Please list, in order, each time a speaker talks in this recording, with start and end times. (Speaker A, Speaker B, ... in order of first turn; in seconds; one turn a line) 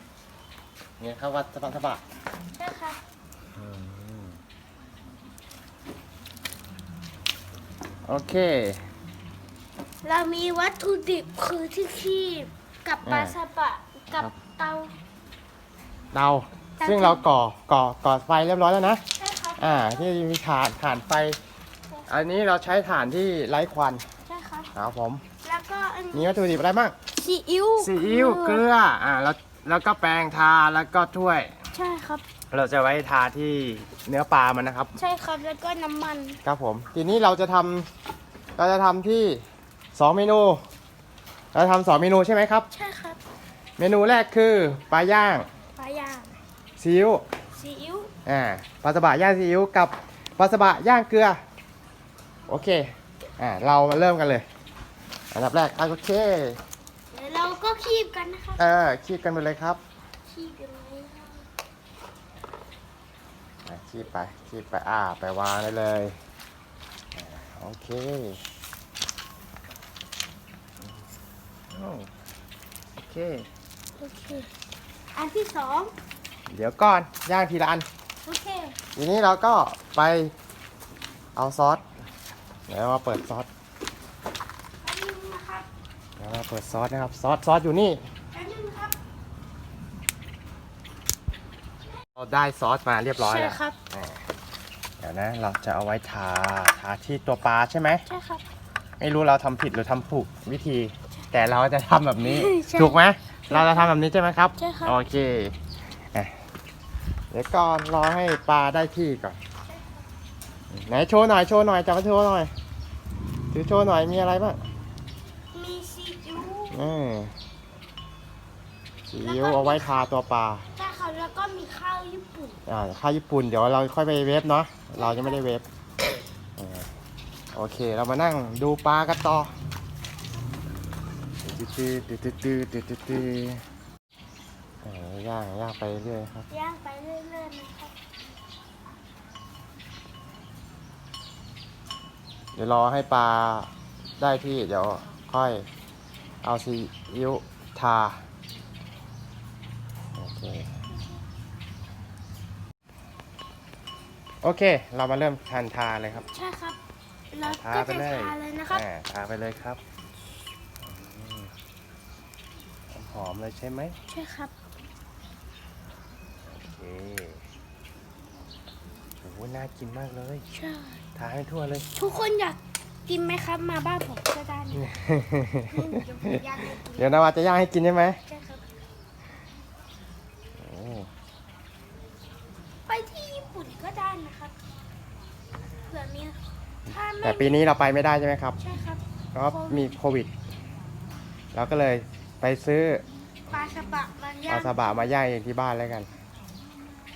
Speaker A: 1.0-2.0
Speaker B: 2.5-3.0
Speaker A: 3.5-4.4
Speaker A: 8.0-8.8
Speaker B: 10.0-14.9
Speaker A: 13.0-13.4
Speaker A: 16.1-19.0
Speaker B: 16.8-17.2
Speaker B: 19.2-20.1
Speaker A: 19.6-21.4
Speaker A: 22.1-24.1
Speaker B: 24.2-24.7
Speaker A: 24.7-25.2
Speaker B: 25.4-26.4
Speaker A: 26.1-26.9
Speaker B: 27.1-28.6
Speaker A: 27.8-31.6
Speaker B: 31.7-32.2
Speaker A: 32.5-34.9
Speaker B: 35.0-36.4
Speaker A: 36.4-37.9
Speaker A: 38.6-39.4
Speaker A: 39.9-40.6
Speaker A: 41.5-42.7
Speaker B: 42.7-43.2
Speaker A: 43.8-45.5
Speaker B: 45.8-46.3
Speaker A: 46.8-47.2
Speaker B: 47.5-48.1
Speaker A: 48.2-51.4
Speaker A: 52.5-54.5
Speaker A: 55.3-56.6
Speaker B: 57.1-58.6
Speaker A: 58.6-59.8
Speaker B: 60.2-61.5
Speaker A: 63.6-66.2
Speaker A: 67.1-68.4
Speaker A: 71.7-72.1
Speaker A: 73.0-73.5
Speaker B: 74.0-74.5
Speaker B: 75.1-75.9
Speaker A: 76.5-77.8
Speaker B: 78.2-78.8
Speaker A: 79.0-80.3
Speaker A: 81.3-81.8
Speaker A: 82.7-83.5
Speaker B: 84.8-85.7
Speaker A: 86.2-88.0
Speaker B: 88.3-88.9
Speaker A: 92.2-94.2
Speaker B: 93.2-93.8
Speaker A: 95.0-98.0
Speaker B: 98.0-98.4
Speaker A: 99.0-105.6
Speaker B: 102.2-103.9
Speaker B: 104.5-105.0
Speaker A: 107.3-109.4
Speaker A: 110.7-112.5
Speaker A: 113.5-114.6
Speaker B: 115.5-116.9
Speaker A: 116.7-117.3
Speaker A: 119.1-120.7
Speaker B: 119.2-120.0
Speaker B: 120.7-122.6
Speaker A: 122.7-125.7
Speaker B: 124.9-125.4
Speaker A: 126.6-126.9
Speaker A: 127.5-129.5
Speaker A: 131.4-133.6
Speaker A: 134.8-136.5
Speaker B: 136.5-137.9
Speaker A: 142.5-145.6
Speaker A: 146.4-148.2
Speaker A: 150.2-150.7
Speaker A: 154.4-156.2
Speaker B: 156.3-156.8
Speaker B: 157.3-158.8
Speaker A: 157.4-159.8
Speaker A: 160.8-161.5
Speaker A: 162.9-164.0
Speaker B: 164.1-164.5
Speaker A: 166.4-167.4
Speaker A: 169.2-170.4
Speaker B: 170.5-171.0
Speaker A: 171.1-171.8
Speaker B: 171.9-174.8
Speaker A: 174.8-176.0
Speaker B: 175.7-177.1
Speaker A: 176.9-178.2
Speaker B: 178.2-178.6
Speaker A: 180.6-181.1
Speaker B: 182.9-184.5
Speaker B: 185.9-187.6
Speaker A: 187.2-188.6
Speaker B: 188.6-189.9
Speaker A: 189.3-190.3
Speaker A: 191.5-193.0
Speaker B: 193.5-195.0
Speaker A: 194.5-196.1